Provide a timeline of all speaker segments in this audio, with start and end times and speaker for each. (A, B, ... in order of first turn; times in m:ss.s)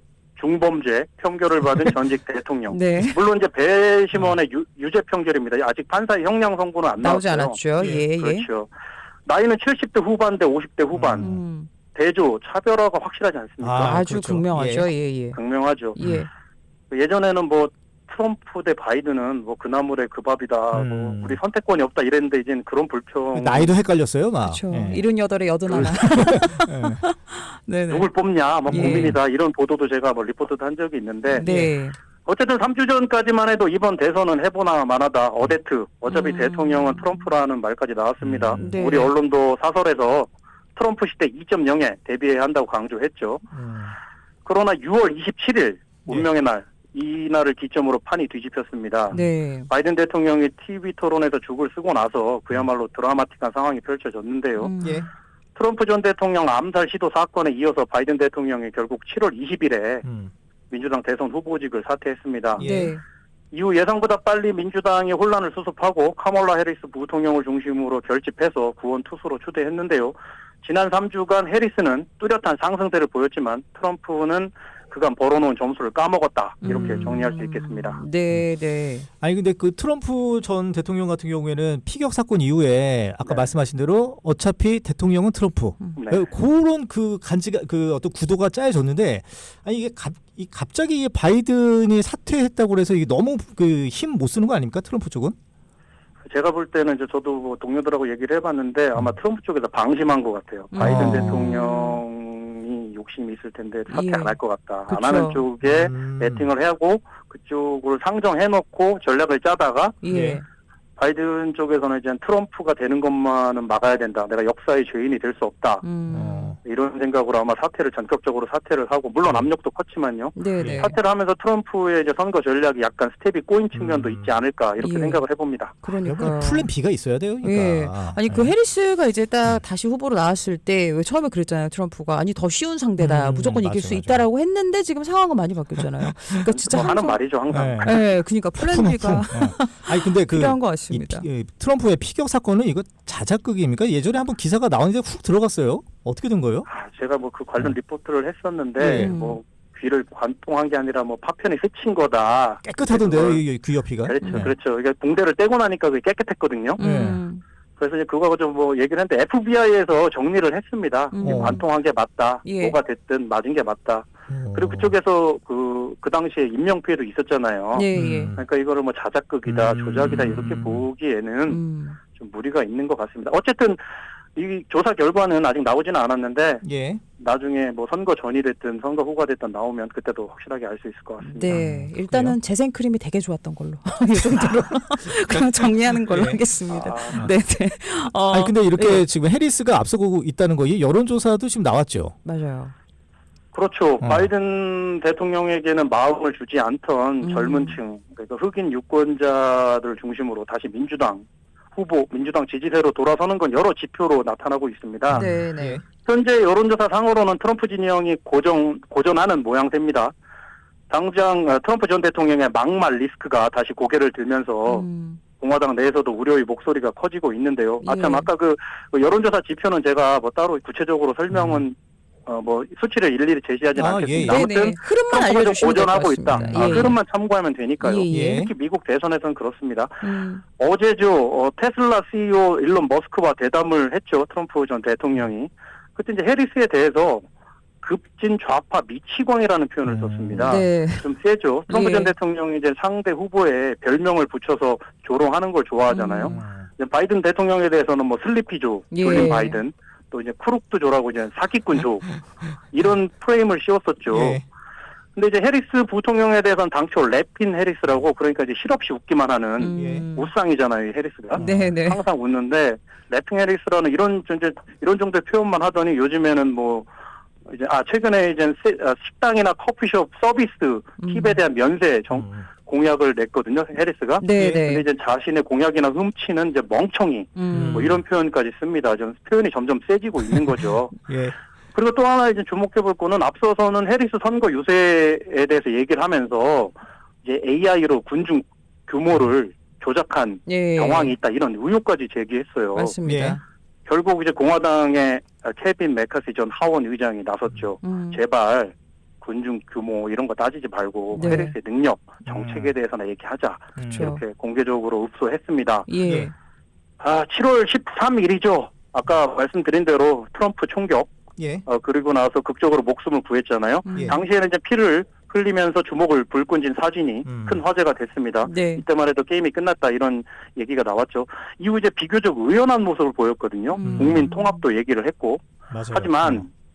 0:00.4-0:08.7 A
0:02.7-0:03.2 B
0:07.0-0:08.5 B
0:07.8-0:08.0 C
0:09.3-0:11.3 A
0:10.9-0:11.4 C
0:11.2-0:11.7 B
0:11.9-0:14.0 A
0:13.6-0:14.9 C
0:13.8-0:15.4 B
0:15.3-0:16.0 A
0:16.0-0:16.3 B
0:16.0-0:16.3 C
0:16.9-0:23.7 A
0:20.7-0:21.4 C
0:23.3-0:25.0 C
0:24.4-0:28.1 B
0:25.7-0:26.4 A
0:25.7-0:27.0 C
0:27.9-0:31.5 A
0:28.7-0:29.2 C
0:28.7-0:29.2 B
0:31.4-0:32.0 B
0:31.4-0:31.7 C
0:32.2-0:43.4 A
0:36.1-0:37.3 B
0:38.2-0:38.8 C
0:38.6-0:39.1 B
0:43.5-0:43.9 C
0:44.4-0:49.2 A
0:49.1-0:49.7 B
0:49.7-0:54.7 A
0:54.6-0:55.1 B
0:54.8-0:55.1 C
0:55.6-1:00.0 A
1:00.0-1:00.3 C
1:00.7-1:02.7 A
1:02.6-1:03.0 C
1:02.6-1:03.0 B
1:03.5-1:18.0 A
1:16.6-1:19.1 B
1:16.7-1:17.0 C
1:19.2-1:35.4 C
1:23.2-1:23.5 A
1:26.0-1:26.3 A
1:36.3-1:50.0 A
1:40.7-1:42.0 B
1:40.8-1:41.5 C
1:43.9-1:44.4 B
1:44.9-1:45.4 B
1:45.6-1:46.5 C
1:50.0-1:50.4 B
1:50.1-1:50.4 C
1:51.0-1:55.8 A
1:55.8-1:56.6 B
1:56.1-1:56.6 C
1:56.6-2:05.8 A
2:00.4-2:01.0 B
2:00.6-2:00.9 C
2:03.7-2:04.4 C
2:04.8-2:05.2 B
2:05.8-2:06.7 B
2:05.9-2:08.5 C
2:07.4-2:17.2 B
2:13.0-2:14.3 C
2:16.5-2:18.0 A
2:17.5-2:18.0 C
2:17.8-2:21.2 B
2:18.6-2:26.7 C
2:26.7-2:33.5 A
2:28.8-2:29.1 C
2:28.9-2:29.4 B
2:32.6-2:34.5 C
2:34.0-2:36.8 A
2:34.2-2:34.5 B
2:36.8-2:37.4 B
2:36.8-2:37.2 C
2:37.8-2:51.6 A
2:41.1-2:41.6 B
2:41.2-2:41.6 C
2:42.4-2:42.8 B
2:44.3-2:44.9 C
2:47.7-2:48.3 B
2:47.9-2:48.4 C
2:49.5-2:50.8 C
2:51.5-2:52.0 B
2:52.2-2:53.8 A
2:54.4-2:56.6 A
2:56.6-2:57.0 C
2:57.2-3:01.6 A
3:01.2-3:09.0 B
3:01.5-3:02.4 C
3:04.2-3:06.4 C
3:06.7-3:07.3 A
3:08.3-3:12.2 C
3:12.2-3:12.7 B
3:13.5-3:25.3 A
3:14.0-3:14.3 C
3:17.2-3:17.8 B
3:25.1-3:25.8 C
3:25.1-3:25.8 B
3:26.0-3:30.1 A
3:30.9-3:34.9 A
3:34.7-3:35.2 B
3:35.4-3:50.0 A
3:37.8-3:38.3 B
3:41.3-3:41.6 C
3:43.8-3:44.5 C
3:44.2-3:47.0 B
3:46.3-3:47.0 C
3:47.8-3:48.5 B
3:48.1-3:48.5 C
3:50.0-3:50.4 B
3:50.6-3:57.2 A
3:57.8-4:12.2 A
3:59.8-4:00.6 C
4:00.3-4:01.1 B
4:01.7-4:02.1 B
4:05.9-4:06.4 B
4:06.3-4:06.7 C
4:08.9-4:09.6 B
4:12.7-4:14.4 A
4:14.1-4:14.4 C
4:15.2-4:26.9 A
4:19.6-4:20.3 B
4:19.8-4:20.1 C
4:21.4-4:21.7 C
4:21.4-4:22.0 B
4:27.5-4:41.0 A
4:31.0-4:31.4 B
4:32.1-4:32.5 C
4:34.2-4:34.8 B
4:34.4-4:34.6 C
4:37.4-4:37.9 B
4:37.5-4:38.0 C
4:41.1-4:41.4 C
4:41.7-4:53.0 A
4:50.5-4:51.2 B
4:52.7-4:53.4 B
4:53.0-4:53.4 C
4:53.9-5:05.9 A
4:57.8-4:58.2 B
5:01.1-5:01.6 B
5:02.3-5:02.7 C
5:03.8-5:04.2 C
5:03.9-5:04.2 B
5:05.9-5:06.3 B
5:07.0-5:11.1 A
5:11.4-5:11.6 C
5:11.6-5:26.5 A
5:13.8-5:14.2 B
5:17.3-5:17.6 C
5:18.4-5:18.8 B
5:23.7-5:24.6 B
5:23.8-5:24.3 C
5:25.7-5:26.4 C